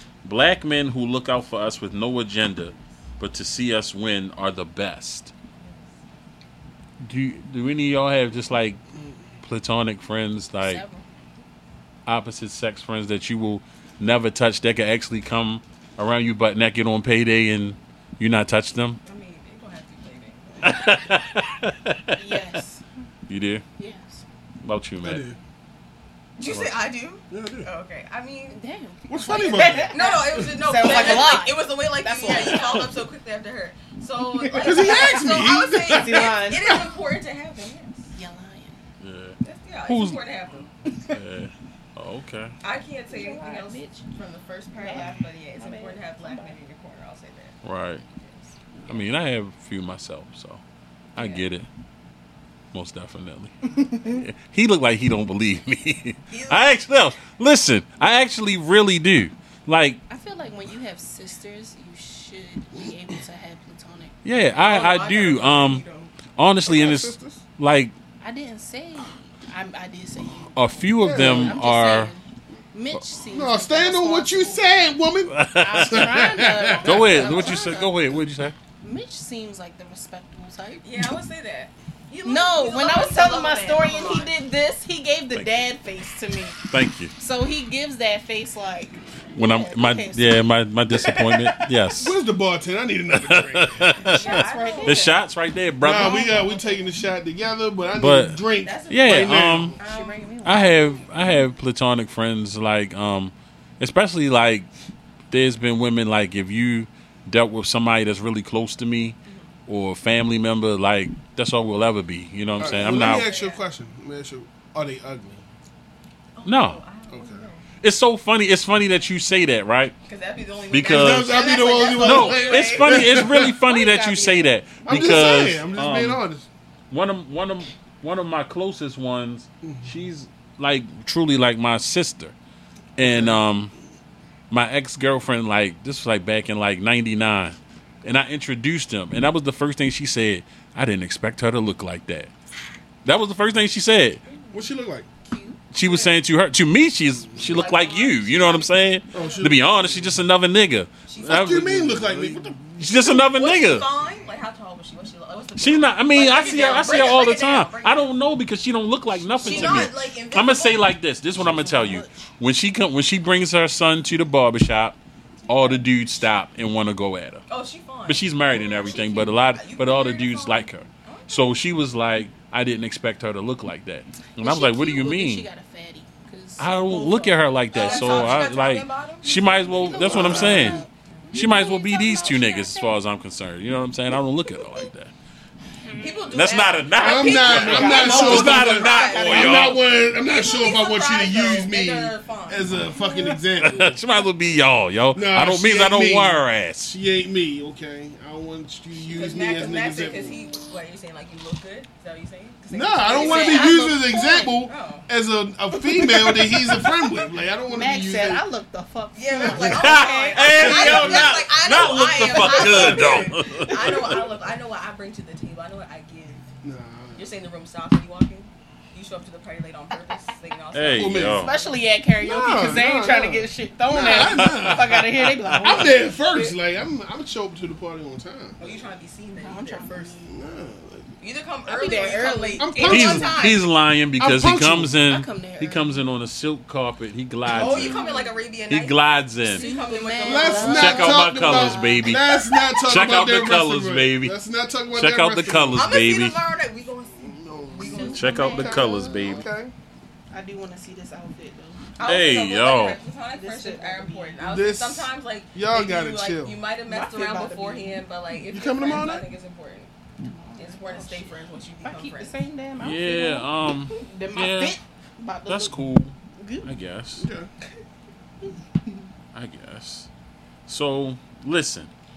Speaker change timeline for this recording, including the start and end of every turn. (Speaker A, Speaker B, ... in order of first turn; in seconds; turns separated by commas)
Speaker A: 0.2-5.3, Speaker A: 7.0-8.8, Speaker A: 9.4-10.8, Speaker B: 10.6-11.0, Speaker A: 12.1-19.0, Speaker C: 19.0-21.0, Speaker A: 20.6-22.3, Speaker B: 22.1-22.8, Speaker A: 23.3-23.6, Speaker B: 23.8-24.2, Speaker A: 24.6-25.2, Speaker D: 25.0-25.4, Speaker C: 26.4-28.6, Speaker A: 26.4-26.7, Speaker D: 27.3-27.7, Speaker B: 28.5-32.9, Speaker D: 29.1-30.9, Speaker C: 29.5-38.1, Speaker B: 34.4-36.8, Speaker D: 34.5-36.8, Speaker B: 38.1-38.8, Speaker A: 39.0-40.2, Speaker C: 39.4-40.7, Speaker A: 41.0-42.5, Speaker C: 42.6-47.6, Speaker B: 43.1-44.0, Speaker B: 44.8-46.6, Speaker A: 47.6-48.0, Speaker B: 48.2-48.9, Speaker A: 48.9-50.6, Speaker A: 51.1-51.7, Speaker C: 51.2-51.4, Speaker A: 52.7-60.0, Speaker C: 56.3-56.8, Speaker B: 60.1-64.2, Speaker A: 64.2-65.8, Speaker C: 64.5-66.1, Speaker A: 66.3-67.9, Speaker D: 66.7-67.4, Speaker B: 68.2-74.7, Speaker A: 70.5-72.1, Speaker D: 71.0-71.6, Speaker D: 73.3-77.7, Speaker A: 75.3-78.5, Speaker B: 75.5-78.2, Speaker B: 78.8-81.0, Speaker C: 80.8-84.3, Speaker B: 82.2-86.6, Speaker A: 85.3-85.6, Speaker A: 86.7-87.1, Speaker B: 87.2-90.5, Speaker A: 89.3-92.1, Speaker B: 91.2-91.5, Speaker D: 91.9-94.0, Speaker A: 93.2-96.3, Speaker B: 94.0-95.2, Speaker C: 94.1-95.2, Speaker D: 95.8-99.8, Speaker B: 95.9-96.8, Speaker A: 98.0-99.7, Speaker C: 98.6-100.9, Speaker B: 99.8-101.0, Speaker A: 100.4-104.7, Speaker A: 105.3-113.3, Speaker C: 109.2-109.5, Speaker C: 112.6-113.6, Speaker D: 112.6-115.4, Speaker C: 116.3-117.6, Speaker A: 116.4-116.8, Speaker D: 117.1-117.5, Speaker A: 117.8-119.9, Speaker C: 120.0-123.3, Speaker A: 120.7-126.2, Speaker D: 120.8-123.5, Speaker B: 123.3-125.5, Speaker D: 124.9-126.5, Speaker A: 126.9-132.3, Speaker D: 129.6-129.9, Speaker D: 133.0-133.4, Speaker A: 133.0-133.7, Speaker A: 134.5-142.3, Speaker A: 143.0-144.2, Speaker D: 144.5-145.1, Speaker B: 145.2-145.6, Speaker A: 145.7-153.9, Speaker C: 145.8-146.1, Speaker C: 147.4-149.5, Speaker D: 149.1-150.2, Speaker C: 151.1-151.5, Speaker D: 151.2-152.7, Speaker C: 152.9-158.1, Speaker A: 155.6-167.4, Speaker C: 159.4-160.9, Speaker B: 159.4-159.8, Speaker B: 161.4-162.1, Speaker B: 165.4-165.8, Speaker C: 167.5-171.6, Speaker A: 168.1-175.5, Speaker B: 168.8-169.4, Speaker B: 174.4-178.5, Speaker A: 176.6-185.1, Speaker C: 177.7-180.5, Speaker B: 179.5-183.0, Speaker D: 179.9-180.8, Speaker B: 185.8-186.3, Speaker C: 186.0-192.7, Speaker A: 186.3-189.8, Speaker D: 187.0-194.0, Speaker B: 187.0-189.8, Speaker B: 192.9-193.3, Speaker A: 193.6-196.9, Speaker D: 195.1-200.4, Speaker C: 199.0-203.9, Speaker B: 200.4-200.7, Speaker D: 202.7-208.4, Speaker B: 203.1-204.7, Speaker C: 204.6-205.1, Speaker B: 205.7-206.9, Speaker B: 207.7-211.2, Speaker C: 209.1-216.5, Speaker D: 209.4-209.8, Speaker A: 209.6-214.2, Speaker D: 210.6-211.3, Speaker B: 212.4-213.2, Speaker D: 212.4-213.0, Speaker D: 216.6-217.3, Speaker C: 217.2-221.8, Speaker A: 220.7-221.5, Speaker D: 220.9-221.5, Speaker B: 221.3-226.5, Speaker D: 222.2-224.9, Speaker A: 224.1-225.9, Speaker D: 225.6-228.6, Speaker C: 228.6-230.2, Speaker B: 229.4-230.4, Speaker D: 230.3-231.1, Speaker C: 231.2-233.7, Speaker B: 231.7-233.1, Speaker D: 232.6-233.4, Speaker A: 232.9-238.0, Speaker D: 234.2-235.0, Speaker B: 235.1-236.0, Speaker C: 237.4-241.2, Speaker B: 237.8-238.4, Speaker A: 238.7-239.7, Speaker B: 239.4-242.1, Speaker D: 240.2-245.9, Speaker A: 240.7-242.2, Speaker C: 242.3-243.0, Speaker A: 242.8-244.3, Speaker A: 244.9-246.4, Speaker C: 245.7-248.8, Speaker D: 247.2-249.7, Speaker B: 247.8-249.3, Speaker A: 248.1-249.4, Speaker B: 250.3-251.8, Speaker C: 251.9-259.9, Speaker A: 252.0-253.0, Speaker B: 253.3-254.4, Speaker D: 254.4-256.6, Speaker B: 256.9-258.0, Speaker D: 258.5-259.2, Speaker B: 260.2-265.8, Speaker C: 260.6-262.4, Speaker A: 262.8-264.8, Speaker A: 265.5-267.2, Speaker B: 266.4-266.7, Speaker D: 267.1-267.5, Speaker B: 268.4-269.0, Speaker A: 269.3-270.1, Speaker A: 270.7-271.9